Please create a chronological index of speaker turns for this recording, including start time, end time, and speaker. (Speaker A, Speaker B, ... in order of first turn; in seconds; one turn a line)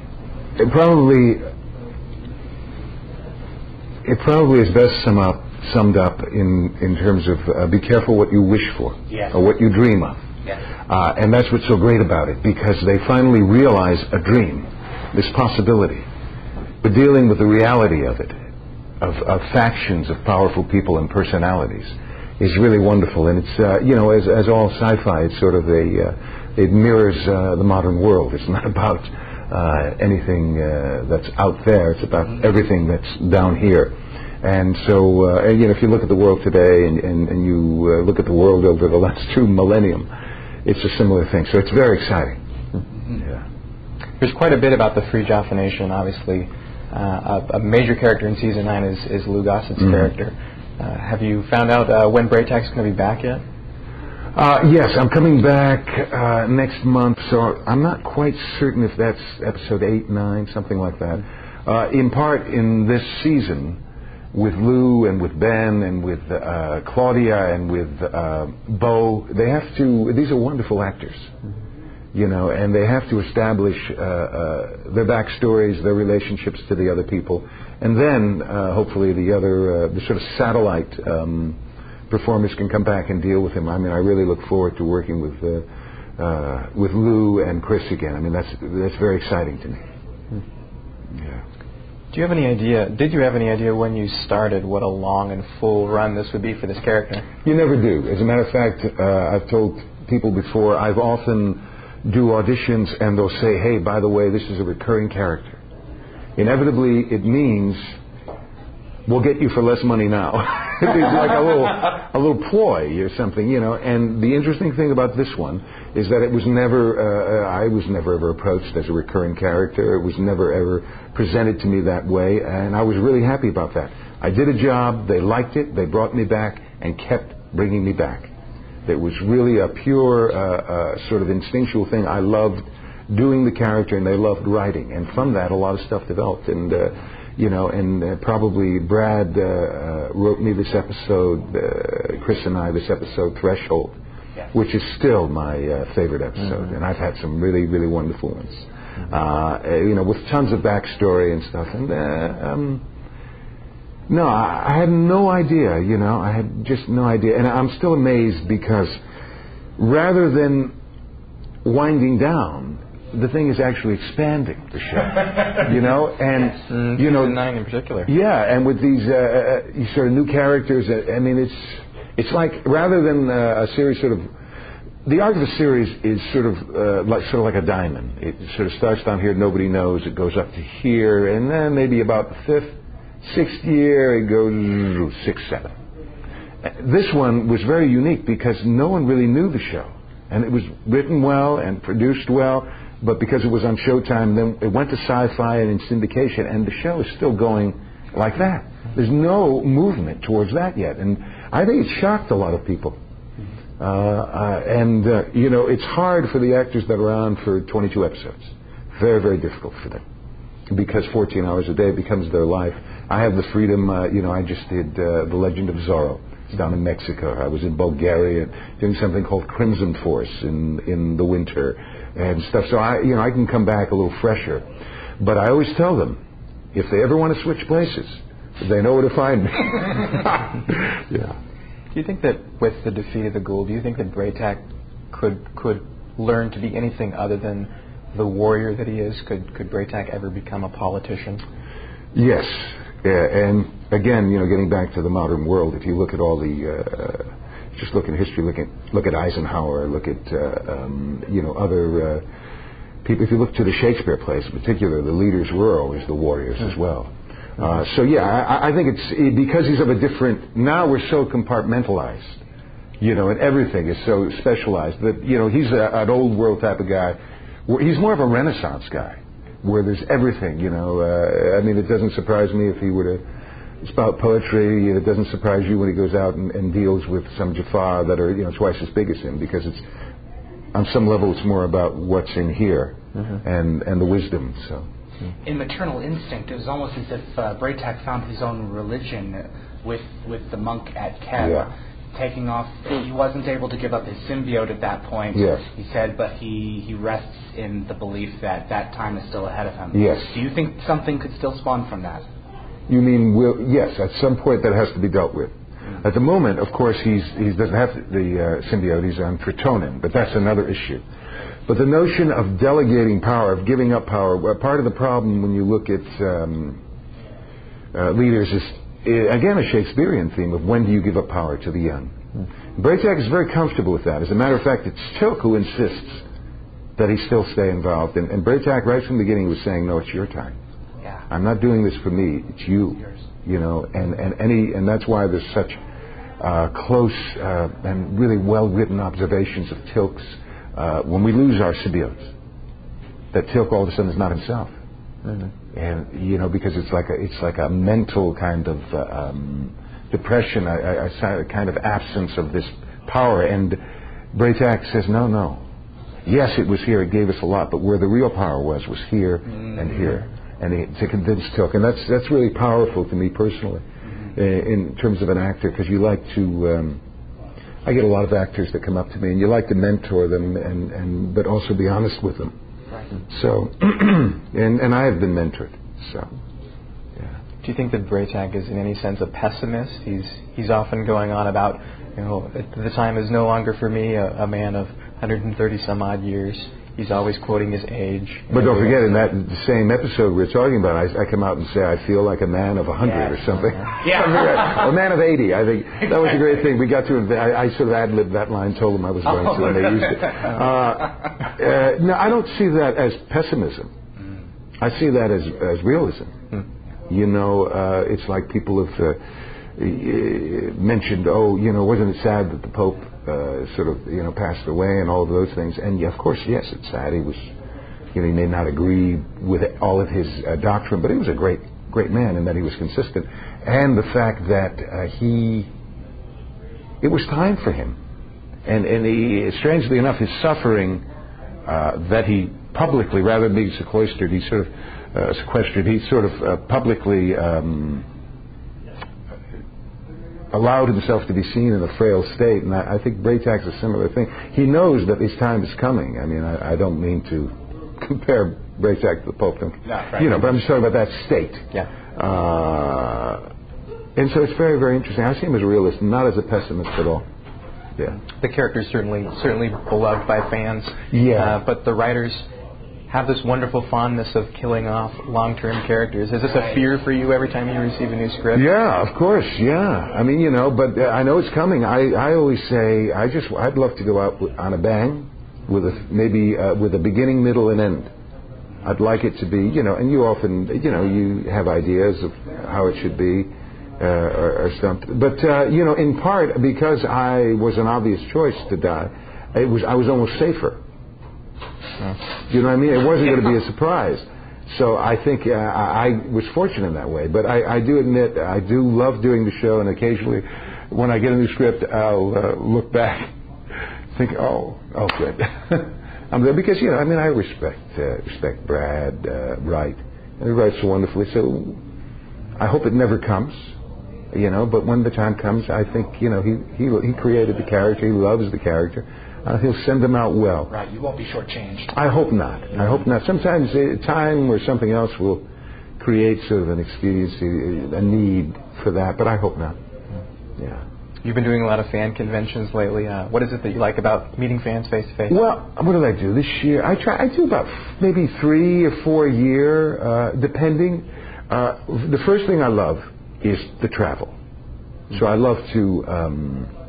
Speaker A: 0.6-1.4
Speaker A: 4.0-10.2
Speaker A: 10.9-16.1
Speaker A: 16.8-18.4
Speaker A: 19.0-40.1
Speaker A: 40.6-42.4
Speaker A: 43.1-43.4
Speaker B: 44.2-53.4
Speaker A: 54.4-63.8
Speaker A: 64.3-71.3
Speaker A: 72.1-81.6
Speaker A: 82.1-85.7
Speaker A: 86.2-89.8
Speaker A: 91.2-91.4
Speaker B: 92.1-97.3
Speaker A: 97.4-105.6
Speaker A: 106.4-107.8
Speaker A: 109.1-128.3
Speaker A: 128.9-144.0
Speaker A: 144.5-152.8
Speaker A: 154.1-159.0
Speaker A: 159.8-160.8
Speaker A: 161.6-167.4
Speaker B: 166.5-168.1
Speaker A: 168.1-174.3
Speaker A: 175.1-185.7
Speaker A: 186.6-203.0
Speaker A: 203.8-210.0
Speaker A: 210.7-224.7
Speaker A: 225.2-226.2
Speaker A: 226.7-231.4
Speaker B: 231.9-241.4
Speaker A: 242.1-252.2
Speaker A: 253.0-262.4
Speaker A: 263.0-273.2
Speaker A: 273.8-279.9
Speaker A: 280.7-284.9
Speaker C: 285.4-302.3
Speaker A: 291.4-291.7
Speaker A: 295.3-295.7
Speaker A: 299.9-300.4
Speaker A: 302.9-311.0
Speaker A: 311.7-316.8
Speaker A: 317.9-322.1
Speaker A: 322.8-326.2
Speaker A: 327.0-330.6
Speaker A: 331.3-335.8
Speaker A: 336.4-342.3
Speaker A: 343.3-344.7
Speaker A: 345.7-353.8
Speaker A: 354.3-355.6
Speaker A: 356.3-367.0
Speaker A: 367.9-372.6
Speaker A: 373.3-376.3
Speaker B: 377.6-389.1
Speaker A: 388.5-403.9
Speaker C: 393.0-393.4
Speaker C: 394.0-394.9
Speaker C: 399.3-400.5
Speaker A: 404.8-406.4
Speaker A: 407.1-409.2
Speaker A: 409.8-417.5
Speaker A: 418.1-425.7
Speaker A: 427.0-428.0
Speaker A: 428.7-431.1
Speaker A: 431.7-438.1
Speaker A: 440.5-453.5
Speaker A: 454.2-457.2
Speaker B: 458.4-462.5
Speaker A: 461.1-461.6
Speaker B: 463.1-468.7
Speaker A: 468.5-478.1
Speaker A: 478.8-490.8
Speaker A: 492.5-503.3
Speaker A: 504.1-511.8
Speaker A: 512.6-513.7
Speaker A: 514.3-520.7
Speaker C: 520.7-521.9
Speaker A: 521.9-525.5
Speaker A: 526.0-529.8
Speaker A: 530.6-530.8
Speaker B: 531.2-535.4
Speaker A: 535.3-544.4
Speaker A: 545.1-546.7